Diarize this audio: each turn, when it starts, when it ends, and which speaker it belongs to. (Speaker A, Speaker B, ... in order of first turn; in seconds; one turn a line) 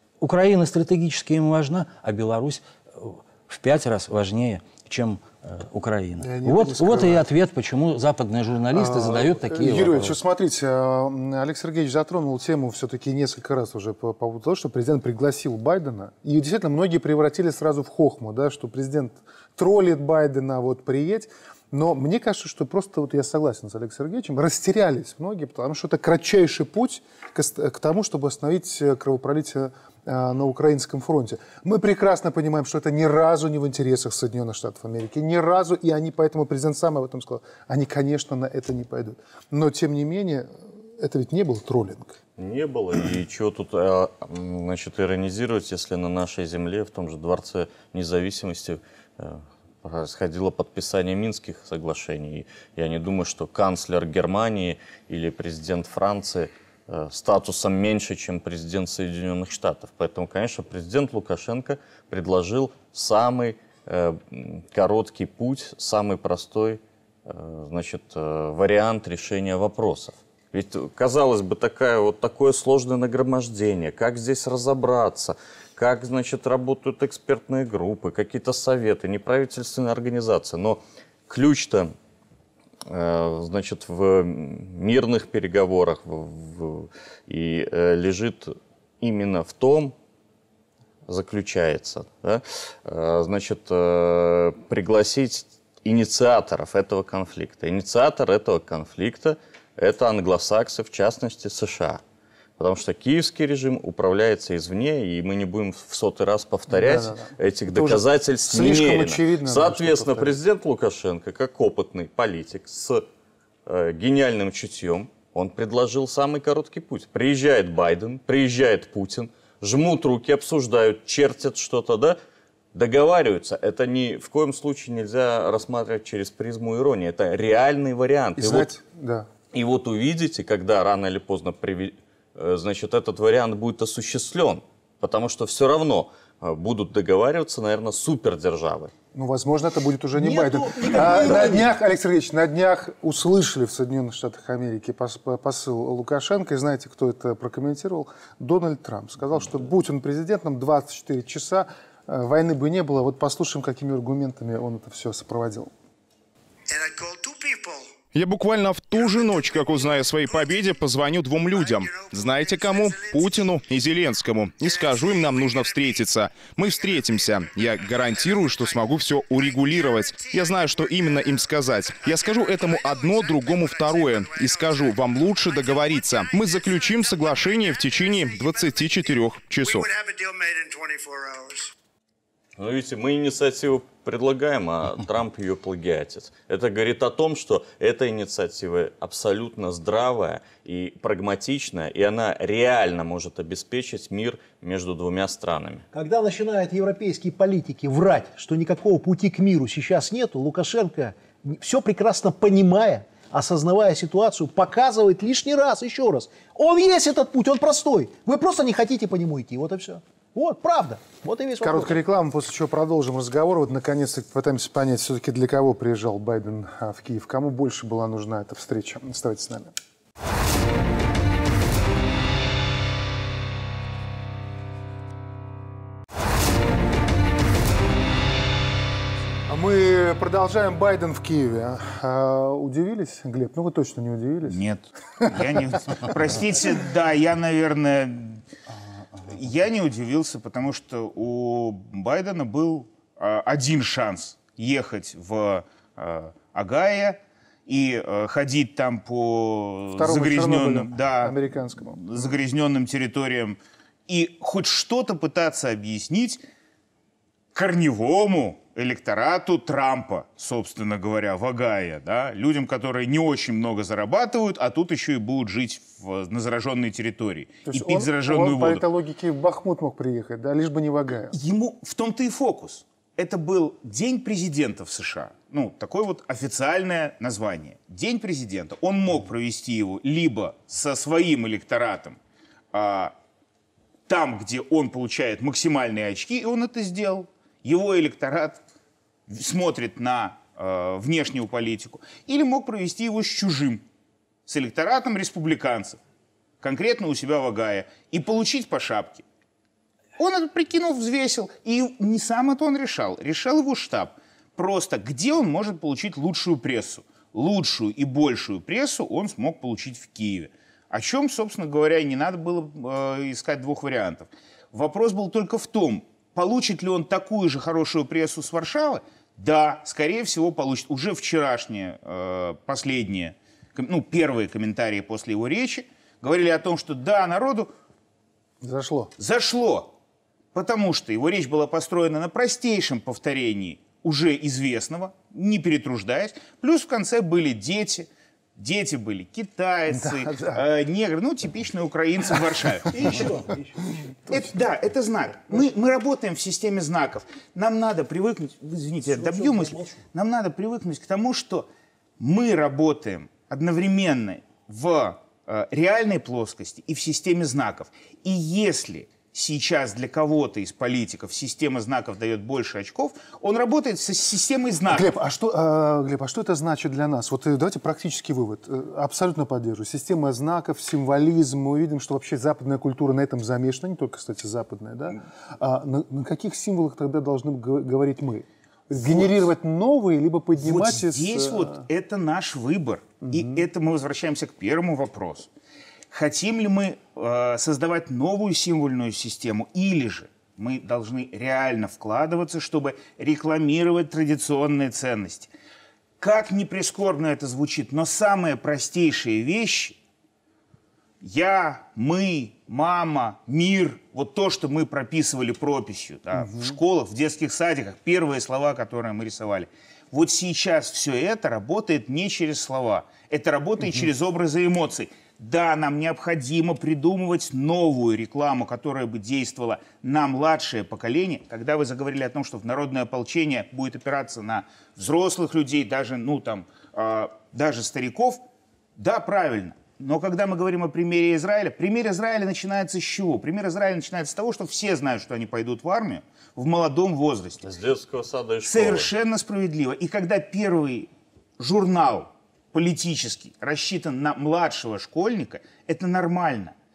Speaker A: 0.2-10.2
Speaker B: 6.2-7.2
Speaker B: 8.7-42.2
Speaker C: 42.4-81.9
Speaker C: 82.9-89.9
Speaker C: 91.1-102.0
Speaker C: 102.6-113.0
Speaker B: 106.7-110.4
Speaker C: 113.7-122.2
Speaker C: 122.7-128.7
Speaker B: 128.3-129.3
Speaker C: 129.5-138.9
Speaker B: 139.1-155.7
Speaker D: 140.2-141.7
Speaker E: 158.1-180.0
Speaker C: 182.6-195.8
Speaker D: 195.9-212.0
Speaker B: 211.6-219.7
Speaker B: 229.5-234.6
Speaker F: 234.5-238.4
Speaker F: 239.3-251.3
Speaker B: 249.9-252.3
Speaker F: 251.9-256.4
Speaker F: 257.5-268.8
Speaker B: 267.6-271.3
Speaker F: 271.3-282.2
Speaker F: 282.7-283.1
Speaker F: 284.1-288.6
Speaker F: 289.3-293.8
Speaker F: 294.5-296.0
Speaker F: 296.6-299.2
Speaker F: 300.2-327.7
Speaker B: 328.6-329.1
Speaker F: 329.2-329.9
Speaker F: 330.5-343.3
Speaker B: 339.9-340.6
Speaker D: 342.9-344.0
Speaker F: 344.3-351.7
Speaker D: 349.0-350.0
Speaker F: 352.2-365.1
Speaker B: 364.9-381.8
Speaker F: 378.9-379.4
Speaker F: 380.6-385.5
Speaker B: 383.2-383.6
Speaker F: 386.1-395.5
Speaker F: 396.2-400.0
Speaker F: 401.2-428.4
Speaker B: 406.5-406.7
Speaker F: 429.0-437.6
Speaker C: 437.6-439.1
Speaker F: 438.6-446.7